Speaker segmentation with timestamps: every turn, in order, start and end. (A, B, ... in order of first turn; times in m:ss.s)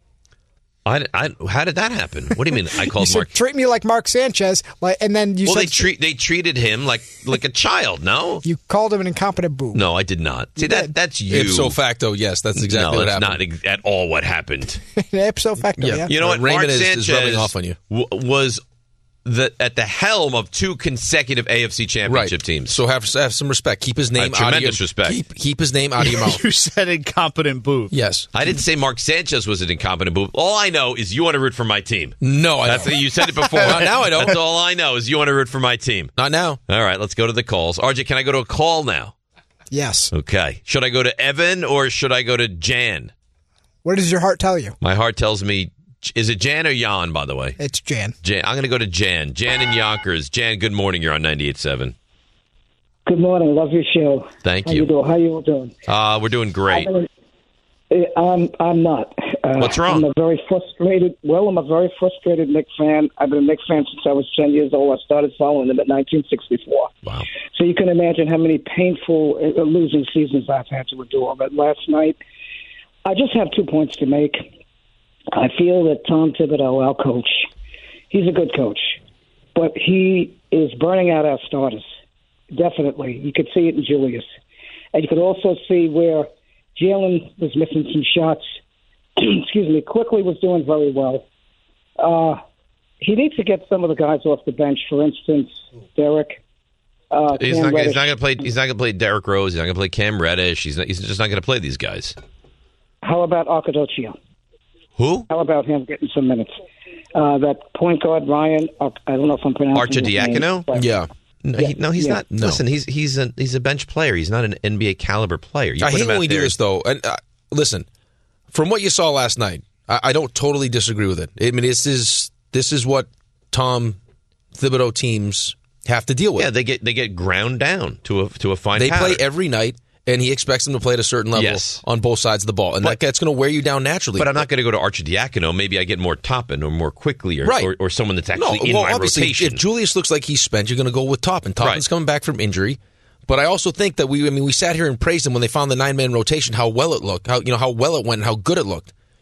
0:00.8-0:03.3 A
0:02.9-0:05.9 B
0:05.4-0:08.4 A
0:08.4-0:09.8 B
0:09.7-0:11.8 A
0:10.6-0:10.9 B
0:11.3-0:13.4 C
0:12.6-0:14.8 A
0:15.0-0:16.1 B
0:15.8-0:17.7 C
0:16.1-0:18.6 A
0:19.2-0:22.8 A
0:22.1-0:26.4 C
0:24.2-0:25.2 A
0:26.0-0:27.9 D
0:27.9-0:28.3 C
0:28.3-0:36.1 A
0:32.2-0:34.4 C
0:33.3-0:34.4 D
0:36.2-0:36.6 C
0:36.7-0:39.1 A
0:39.7-0:40.1 B
0:40.1-0:43.1 A
0:43.8-0:44.8 B
0:44.8-0:47.6 A
0:47.6-0:48.1 B
0:48.2-0:51.9 A
0:53.0-0:55.7 E
0:54.4-0:54.9 A
0:55.9-0:56.9 A
0:56.7-0:57.0 E
0:57.9-1:06.9 E
0:59.6-1:00.0 A
1:07.5-1:12.2 E
1:13.0-1:14.5 E
1:15.3-1:17.5 E
1:18.1-1:19.0 E
1:19.5-1:21.8 E
1:22.5-1:24.3 E
1:24.9-1:28.5 E
1:29.2-1:31.2 E
1:32.0-1:32.4 E
1:33.0-1:36.4 E
1:37.1-1:38.1 E
1:37.4-1:42.2 A
1:43.0-1:44.1 E
1:45.0-1:45.3 A
1:45.3-1:46.5 E
1:47.1-1:50.8 E
1:49.7-1:50.7 A
1:50.7-1:51.1 C
1:51.4-1:56.5 A
1:51.6-1:52.2 E
1:52.3-1:52.6 C
1:55.8-1:57.8 C
1:58.5-2:04.0 C
2:04.5-2:06.5 C
2:06.4-2:09.2 A
2:08.8-2:14.4 C
2:11.3-2:11.8 A
2:14.2-2:19.6 A
2:17.4-2:17.7 C
2:18.3-2:28.9 C